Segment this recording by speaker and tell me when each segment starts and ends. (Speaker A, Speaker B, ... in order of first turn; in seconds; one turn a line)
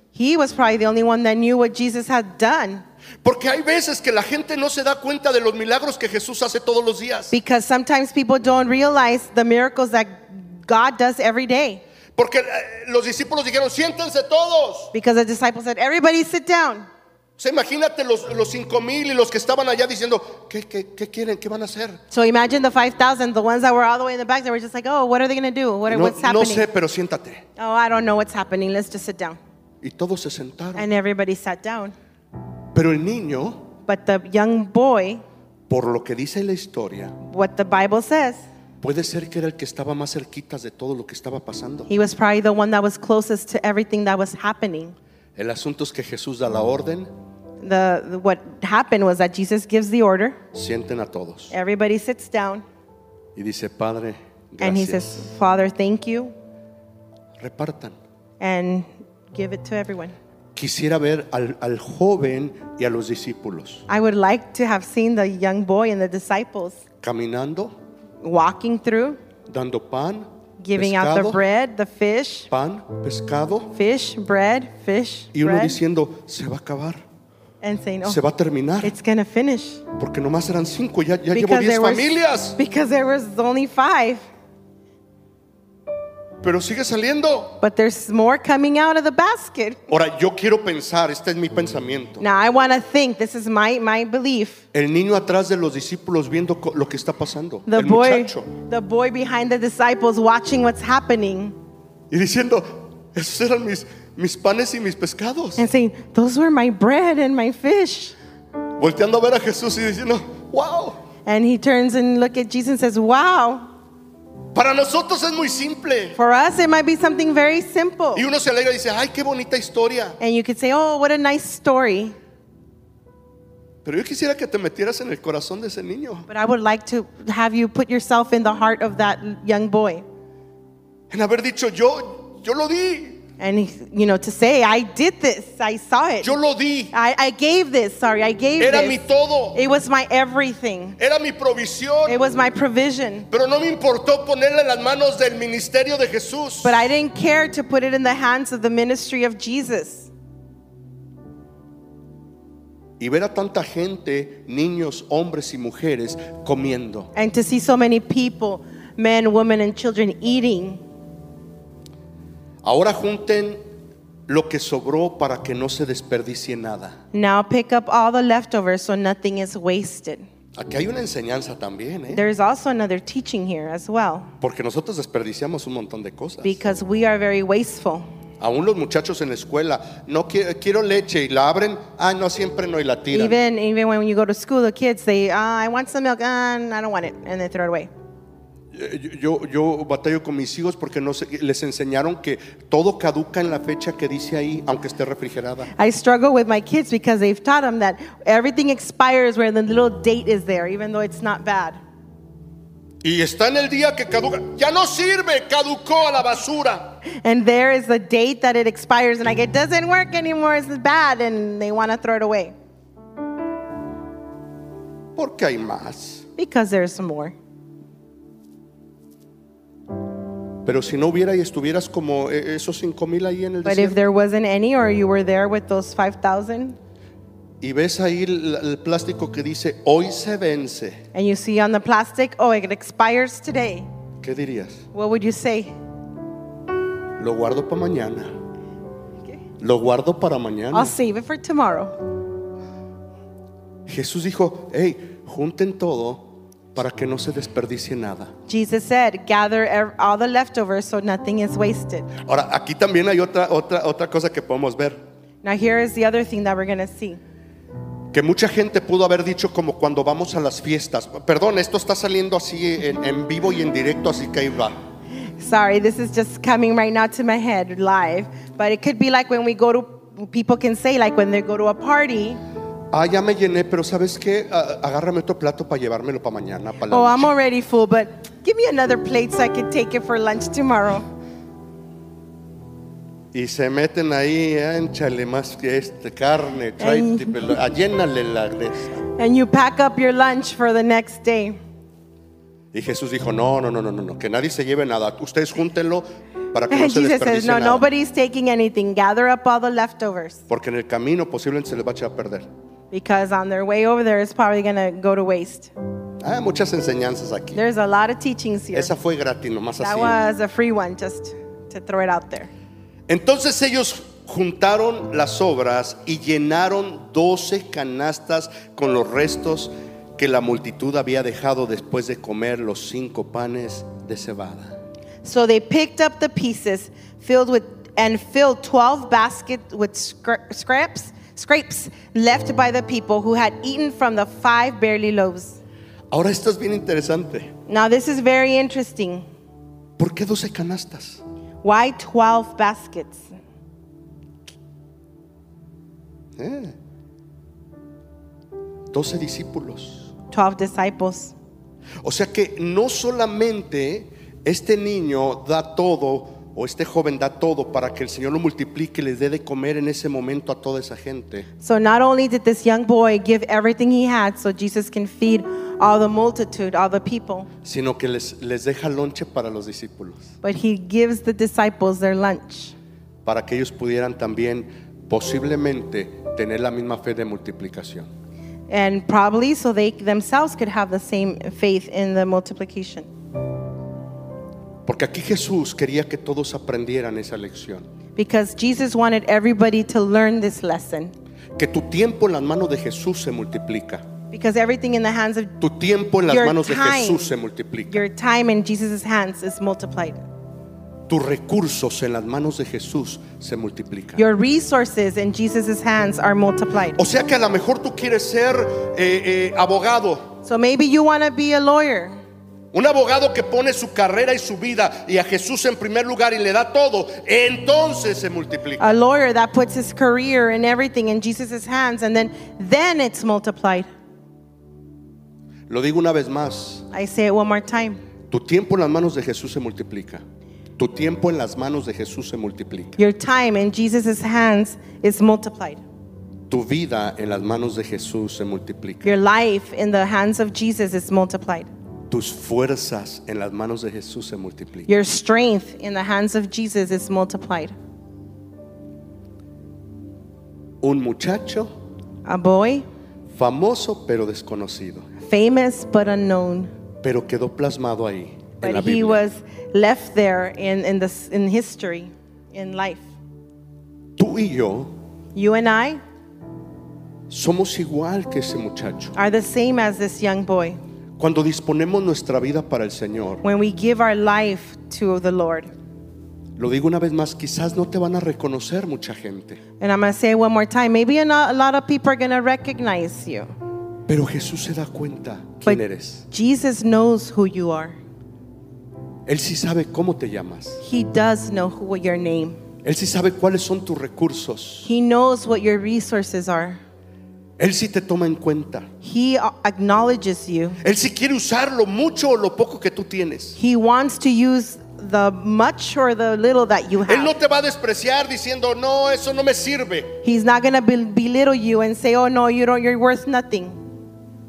Speaker A: 0.1-2.9
Speaker B: 3.2-7.3
Speaker A: 7.3-11.8
Speaker B: 12.2-14.9
Speaker A: 14.9-16.9
Speaker B: 17.4-22.0
Speaker A: 22.1-26.7
Speaker B: 25.9-27.4
Speaker A: 27.6-29.4
Speaker B: 29.8-30.9
Speaker A: 30.8-31.9
Speaker B: 32.7-33.7
Speaker A: 33.9-35.2
Speaker B: 35.7-37.2
Speaker A: 37.2-38.4
Speaker B: 38.8-41.9
Speaker A: 41.9-45.0
Speaker B: 45.4-47.1
Speaker A: 47.6-50.4
Speaker B: 50.5-51.5
Speaker A: 51.5-52.6
Speaker B: 53.4-55.3
Speaker A: 54.6-56.3
Speaker B: 57.4-58.0
Speaker A: 58.4-60.1
Speaker B: 60.6-63.9
Speaker A: 63.9-66.8
Speaker B: 67.0-67.8
Speaker A: 68.2-69.2
Speaker B: 69.5-71.4
Speaker A: 70.6-72.5
Speaker B: 72.5-73.7
Speaker A: 73.7-75.8
Speaker B: 75.3-77.0
Speaker A: 77.6-78.2
Speaker B: 78.0-78.9
Speaker A: 78.8-79.8
Speaker B: 80.0-82.6
Speaker A: 81.3-84.2
Speaker B: 86.4-87.6
Speaker A: 87.6-89.8
Speaker B: 89.9-92.2
Speaker A: 92.2-94.6
Speaker B: 94.7-98.5
Speaker A: 97.7-101.6
Speaker B: 102.1-105.6
Speaker A: 105.6-108.2
Speaker B: 108.8-111.0
Speaker A: 111.3-113.7
Speaker B: 114.5-116.2
Speaker A: 116.2-118.3
Speaker B: 118.2-120.2
Speaker A: 120.2-122.2
Speaker B: 123.8-126.3
Speaker A: 126.3-130.1
Speaker B: 131.1-133.2
Speaker A: 133.4-136.3
Speaker B: 136.2-136.9
Speaker A: 136.9-141.0
Speaker B: 138.6-139.6
Speaker B: 141.0-142.2
Speaker A: 142.1-143.3
Speaker B: 143.3-146.8
Speaker A: 146.6-150.1
Speaker B: 153.0-157.1
Speaker A: 157.2-160.8
Speaker B: 162.6-163.6
Speaker B: 164.3-167.0
Speaker A: 167.1-170.3
Speaker B: 170.6-172.2
Speaker A: 172.1-174.3
Speaker B: 174.4-176.6
Speaker A: 176.4-178.1
Speaker B: 178.4-183.4
Speaker A: 183.1-187.9
Speaker B: 188.7-195.7
Speaker A: 195.8-201.8
Speaker B: 203.0-207.0
Speaker A: 207.1-212.5
Speaker B: 215.2-216.2
Speaker A: 216.4-217.3
Speaker B: 220.7-224.0
Speaker A: 223.6-226.8
Speaker B: 227.6-231.0
Speaker A: 231.1-233.9
Speaker B: 234.2-234.8
Speaker A: 234.9-235.7
Speaker B: 237.2-238.4
Speaker B: 239.6-241.0
Speaker A: 240.7-241.9
Speaker B: 243.9-248.3
Speaker A: 248.5-252.1
Speaker B: 252.2-255.0
Speaker A: 255.4-257.2
Speaker B: 258.1-264.8
Speaker A: 265.4-272.4
Speaker B: 272.9-277.3
Speaker A: 276.9-281.1
Speaker B: 283.3-289.1
Speaker A: 286.8-287.5
Speaker A: 289.2-291.6
Speaker B: 292.7-297.9
Speaker A: 296.7-300.4
Speaker B: 300.5-302.5
Speaker A: 302.9-305.7
Speaker B: 306.2-307.6
Speaker A: 307.5-308.9
Speaker B: 308.7-310.2
Speaker A: 309.8-312.5
Speaker B: 313.1-324.8
Speaker A: 325.2-335.6
Speaker B: 336.1-337.5
Speaker A: 337.7-339.3
Speaker B: 340.0-341.2
Speaker A: 341.6-343.2
Speaker B: 346.4-346.8
Speaker B: 348.9-350.1
Speaker A: 350.3-351.3
Speaker B: 352.0-361.5
Speaker A: 361.6-367.5
Speaker B: 367.6-370.3
Speaker A: 370.4-372.7
Speaker B: 373.2-378.1
Speaker A: 378.7-383.1
Speaker B: 384.9-387.9
Speaker A: 388.2-391.1
Speaker B: 391.6-394.1
Speaker A: 394.3-395.6
Speaker B: 395.6-398.0
Speaker A: 396.3-397.3
Speaker A: 397.9-400.2
Speaker B: 401.1-404.2
Speaker A: 404.2-407.0
Speaker B: 407.0-410.4
Speaker A: 410.4-412.2
Speaker B: 412.7-418.9
Speaker A: 418.8-423.9
Speaker B: 425.7-426.9
Speaker A: 426.9-428.0
Speaker B: 428.3-430.2
Speaker B: 430.8-433.0
Speaker A: 433.0-435.8
Speaker B: 436.5-439.1
Speaker A: 439.0-441.7
Speaker B: 442.1-444.9
Speaker A: 444.9-447.8
Speaker B: 450.8-451.7
Speaker A: 452.3-452.9
Speaker B: 453.3-455.1
Speaker A: 455.2-456.7
Speaker B: 457.0-459.2
Speaker A: 458.6-463.1
Speaker B: 464.2-464.9
Speaker A: 465.4-466.0
Speaker B: 467.3-469.1
Speaker A: 469.1-470.8
Speaker B: 471.2-473.4
Speaker A: 473.4-475.7
Speaker B: 476.6-479.6
Speaker A: 479.8-483.5
Speaker B: 484.1-486.2
Speaker A: 485.7-488.0
Speaker B: 489.3-490.8
Speaker A: 490.8-492.6
Speaker B: 492.8-494.9
Speaker A: 494.9-496.8
Speaker B: 497.6-498.9
Speaker A: 499.0-500.8
Speaker B: 500.8-503.6
Speaker A: 503.6-507.3
Speaker B: 507.1-510.1
Speaker A: 510.2-513.8